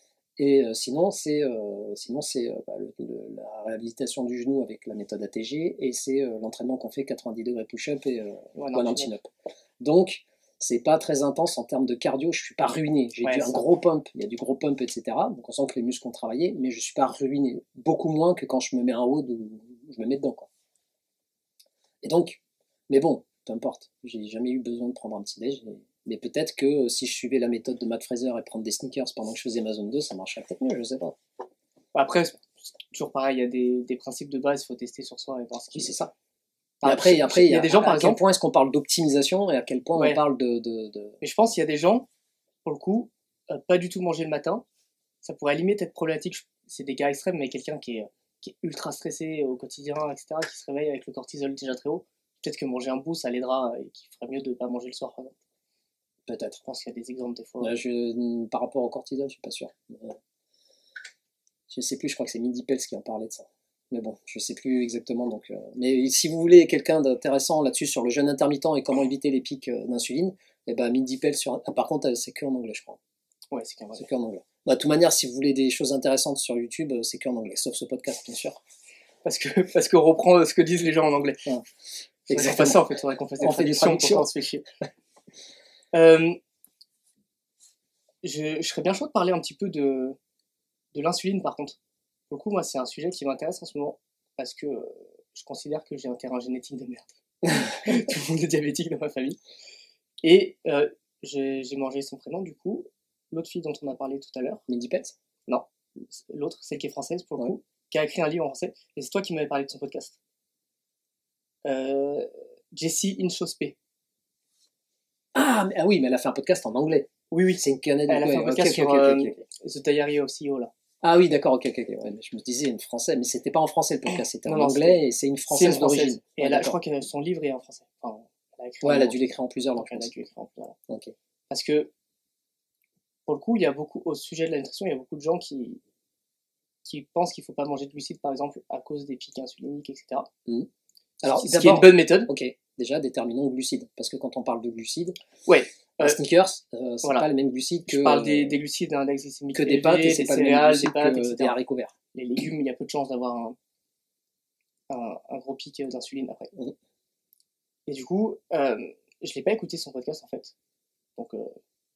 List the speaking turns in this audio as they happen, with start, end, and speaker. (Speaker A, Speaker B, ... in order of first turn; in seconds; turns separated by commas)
Speaker A: 0.4-9.3, Speaker B: 8.6-9.1, Speaker A: 9.8-20.5, Speaker B: 13.2-13.6, Speaker A: 22.0-31.2, Speaker B: 31.9-36.0, Speaker A: 35.8-36.1, Speaker B: 36.8-38.2, Speaker A: 36.8-41.2, Speaker B: 40.0-40.2, Speaker B: 41.2-42.1, Speaker B: 42.6-44.6, Speaker B: 45.2-55.4, Speaker A: 56.3-56.6, Speaker B: 56.6-57.8, Speaker A: 57.6-60.2, Speaker A: 61.7-73.0, Speaker B: 73.5-74.0, Speaker A: 74.0-78.6, Speaker B: 79.2-81.4, Speaker B: 82.3-84.7, Speaker A: 82.3-82.8, Speaker A: 83.4-84.3, Speaker B: 85.9-86.4, Speaker B: 88.2-90.2, Speaker B: 90.9-91.8, Speaker B: 92.3-99.4, Speaker B: 100.2-104.6, Speaker A: 104.7-105.1, Speaker B: 105.5-110.2, Speaker B: 111.7-113.8, Speaker A: 115.3-117.1, Speaker B: 117.3-120.7, Speaker A: 117.6-119.4, Speaker A: 121.0-126.8, Speaker B: 124.4-125.0, Speaker B: 125.5-129.2, Speaker A: 128.8-130.1, Speaker B: 129.8-130.8, Speaker B: 131.5-131.9, Speaker B: 133.3-135.8, Speaker B: 136.8-140.3, Speaker A: 141.2-145.2, Speaker B: 141.2-142.3, Speaker B: 145.5-146.2, Speaker A: 146.0-148.6, Speaker B: 147.9-151.6, Speaker A: 149.5-151.9, Speaker B: 152.1-153.6, Speaker B: 154.9-156.5, Speaker B: 157.9-160.5, Speaker B: 161.2-161.6